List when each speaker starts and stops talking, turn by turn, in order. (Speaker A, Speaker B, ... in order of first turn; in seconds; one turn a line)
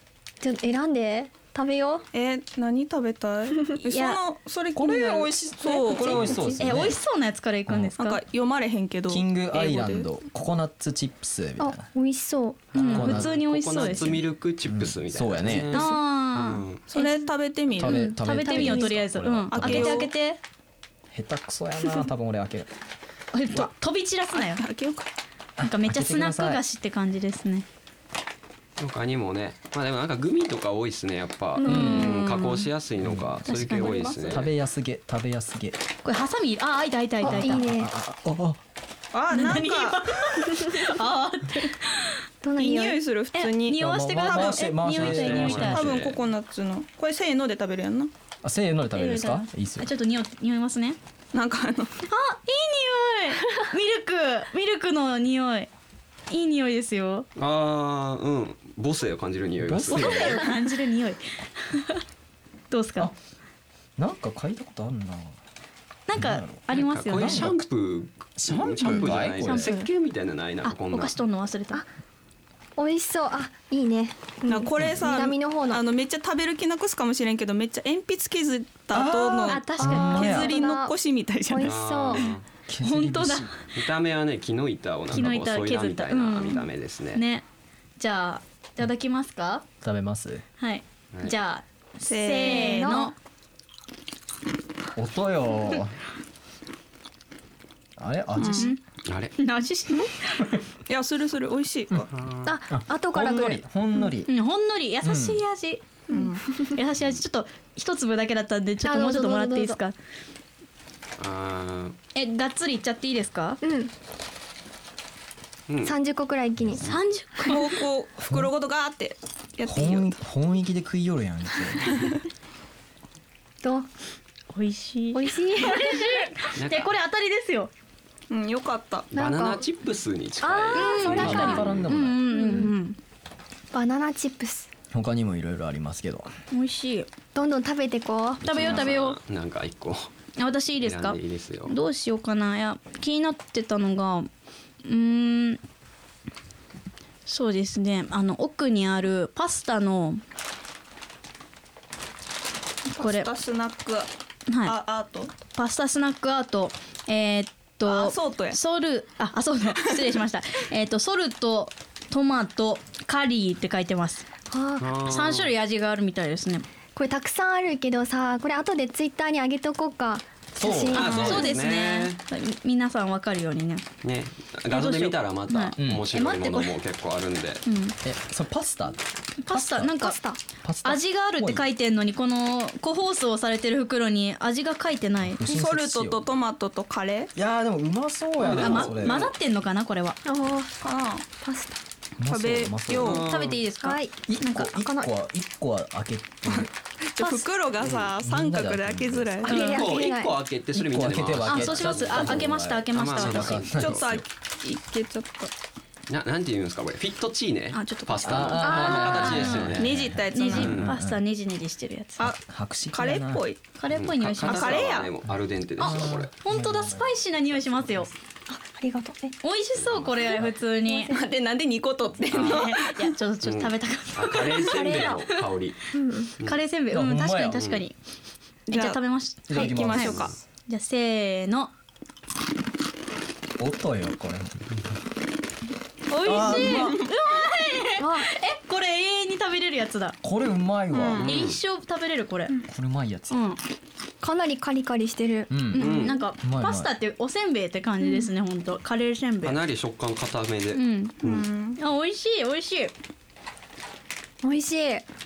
Speaker A: 0.4-2.1
Speaker B: 2.1-6.5
Speaker C: 3.8-4.2
Speaker D: 4.8-7.0
Speaker A: 5.9-6.5
Speaker E: 6.1-6.5
Speaker C: 6.6-8.2
Speaker D: 7.7-7.9
Speaker B: 8.0-10.1
Speaker D: 9.1-11.8
Speaker A: 11.6-12.7
Speaker E: 12.7-16.8
Speaker C: 12.7-14.2
Speaker D: 12.8-13.4
Speaker D: 14.7-15.8
Speaker C: 15.7-17.2
Speaker B: 16.9-18.1
Speaker D: 17.8-20.0
Speaker C: 17.8-20.4
Speaker A: 18.5-18.9
Speaker B: 19.5-20.1
Speaker D: 21.1-22.7
Speaker C: 23.3-24.6
Speaker B: 24.4-25.1
Speaker D: 25.6-26.6
Speaker C: 25.6-27.7
Speaker E: 28.8-34.5
Speaker C: 31.6-32.7
Speaker A: 31.6-32.0
Speaker D: 31.6-32.2
Speaker D: 33.0-33.5
Speaker C: 33.5-34.1
Speaker D: 34.2-35.8
Speaker C: 36.0-37.7
Speaker A: 37.2-37.9
Speaker D: 37.2-38.6
Speaker B: 39.1-40.3
Speaker C: 39.3-42.1
Speaker A: 42.4-43.0
Speaker B: 42.6-44.8
Speaker C: 43.3-45.9
Speaker D: 43.7-46.0
Speaker E: 44.9-46.2
Speaker B: 45.6-48.1
Speaker D: 48.4-49.9
Speaker C: 49.0-51.0
Speaker B: 51.3-52.0
Speaker C: 52.1-55.7
Speaker C: 56.3-57.2
Speaker E: 57.4-60.4
Speaker D: 59.6-60.4
Speaker C: 59.9-62.0
Speaker C: 62.7-63.1
Speaker D: 64.0-65.4
Speaker C: 66.1-67.5
Speaker D: 66.2-67.6
Speaker E: 66.7-71.2
Speaker D: 68.4-69.7
Speaker C: 68.8-69.9
Speaker C: 70.6-71.8
Speaker A: 72.8-75.8
Speaker B: 74.5-81.8
Speaker D: 78.9-80.5
Speaker C: 79.5-80.4
Speaker A: 79.6-81.0
Speaker A: 81.5-82.3
Speaker E: 81.6-82.5
Speaker D: 82.7-83.5
Speaker C: 82.8-83.7
Speaker E: 83.7-87.2
Speaker C: 85.1-87.5
Speaker C: 88.0-89.6
Speaker D: 89.8-90.4
Speaker C: 90.6-93.1
Speaker B: 92.1-93.0
Speaker A: 92.4-93.1
Speaker D: 95.0-96.0
Speaker D: 98.0-98.7
Speaker B: 98.4-98.7
Speaker C: 98.5-98.8
Speaker E: 99.0-99.4
Speaker C: 99.4-100.5
Speaker B: 100.9-102.1
Speaker E: 102.2-102.5
Speaker A: 102.5-103.6
Speaker D: 102.7-104.3
Speaker C: 104.3-106.0
Speaker D: 105.0-105.4
Speaker B: 106.1-106.4
Speaker A: 106.1-106.7
Speaker C: 106.6-110.0
Speaker A: 108.8-109.8
Speaker E: 111.2-112.0
Speaker C: 112.2-113.6
Speaker A: 113.6-113.9
Speaker E: 115.7-115.9
Speaker A: 115.8-116.8
Speaker D: 116.6-116.9
Speaker C: 116.8-117.7
Speaker B: 117.4-120.1
Speaker D: 119.7-122.1
Speaker A: 123.6-123.9
Speaker C: 124.5-127.7
Speaker A: 125.1-126.2
Speaker E: 126.6-126.9
Speaker B: 128.3-129.1
Speaker E: 129.1-131.9
Speaker A: 129.2-129.7
Speaker A: 130.4-131.7
Speaker C: 130.7-133.0
Speaker D: 131.1-132.2
Speaker A: 132.3-132.8
Speaker A: 133.7-134.7
Speaker D: 134.9-136.3
Speaker C: 136.5-137.1
Speaker A: 137.3-138.8
Speaker C: 138.4-139.2
Speaker E: 138.5-140.1
Speaker C: 140.4-144.3
Speaker E: 140.8-141.7
Speaker C: 144.8-145.6
Speaker C: 147.3-150.2
Speaker B: 152.9-154.1
Speaker C: 152.9-153.3
Speaker C: 154.5-154.8
Speaker B: 154.6-155.3
Speaker C: 155.5-164.2
Speaker B: 157.8-158.6
Speaker A: 164.5-164.9
Speaker E: 164.8-165.5
Speaker C: 165.1-166.7
Speaker A: 166.9-171.5
Speaker D: 170.6-171.5
Speaker E: 170.9-172.2
Speaker C: 171.0-173.9
Speaker E: 174.0-177.6
Speaker C: 174.7-176.7
Speaker D: 175.8-176.1
Speaker C: 177.7-178.0
Speaker D: 178.0-179.9
Speaker C: 179.4-180.2
Speaker A: 179.9-180.4
Speaker D: 180.6-181.6
Speaker C: 180.8-185.4
Speaker D: 185.2-186.3
Speaker B: 185.4-187.3
Speaker D: 187.3-189.2
Speaker E: 188.5-189.2
Speaker C: 188.5-190.2
Speaker A: 190.2-190.7
Speaker B: 190.8-191.2
Speaker A: 191.4-191.8
Speaker D: 192.2-193.2
Speaker B: 192.3-193.3
Speaker E: 193.0-193.6
Speaker C: 193.1-194.7
Speaker A: 193.8-195.1
Speaker D: 194.3-196.7
Speaker B: 196.5-199.7
Speaker D: 198.2-199.3
Speaker A: 199.4-200.3
Speaker C: 199.5-199.9
Speaker E: 199.5-204.1
Speaker D: 200.7-204.2
Speaker C: 201.4-203.7
Speaker B: 203.7-205.5
Speaker E: 206.1-210.9
Speaker C: 207.7-212.3
Speaker D: 208.2-211.2
Speaker A: 208.6-209.4
Speaker B: 209.8-210.8
Speaker D: 212.4-213.4
Speaker B: 212.9-213.6
Speaker C: 213.8-214.9
Speaker E: 213.9-216.3
Speaker B: 214.4-215.1
Speaker D: 215.3-218.1
Speaker C: 215.8-218.1
Speaker A: 218.5-219.4
Speaker C: 219.4-221.2
Speaker E: 219.8-220.5
Speaker A: 220.9-221.2
Speaker B: 221.1-223.1
Speaker C: 222.3-225.2
Speaker E: 222.3-222.7
Speaker E: 223.4-225.8
Speaker A: 224.7-225.2
Speaker A: 225.9-226.3
Speaker C: 226.4-227.9
Speaker D: 226.9-227.7
Speaker E: 227.6-227.8
Speaker B: 228.7-230.3
Speaker C: 228.7-231.7
Speaker D: 229.5-230.4
Speaker D: 233.6-234.8
Speaker C: 236.1-240.2
Speaker D: 236.2-237.0
Speaker B: 236.2-237.1
Speaker A: 238.0-238.3
Speaker D: 240.2-241.3
Speaker B: 240.9-241.2
Speaker E: 241.1-241.6
Speaker C: 241.2-242.6
Speaker D: 242.6-243.4
Speaker C: 243.3-243.6
Speaker A: 244.2-245.5
Speaker D: 245.5-246.9
Speaker C: 245.7-249.6
Speaker E: 245.8-246.2
Speaker E: 249.4-251.4
Speaker C: 250.7-251.2
Speaker B: 251.2-251.8
Speaker C: 251.8-252.9
Speaker A: 254.4-255.1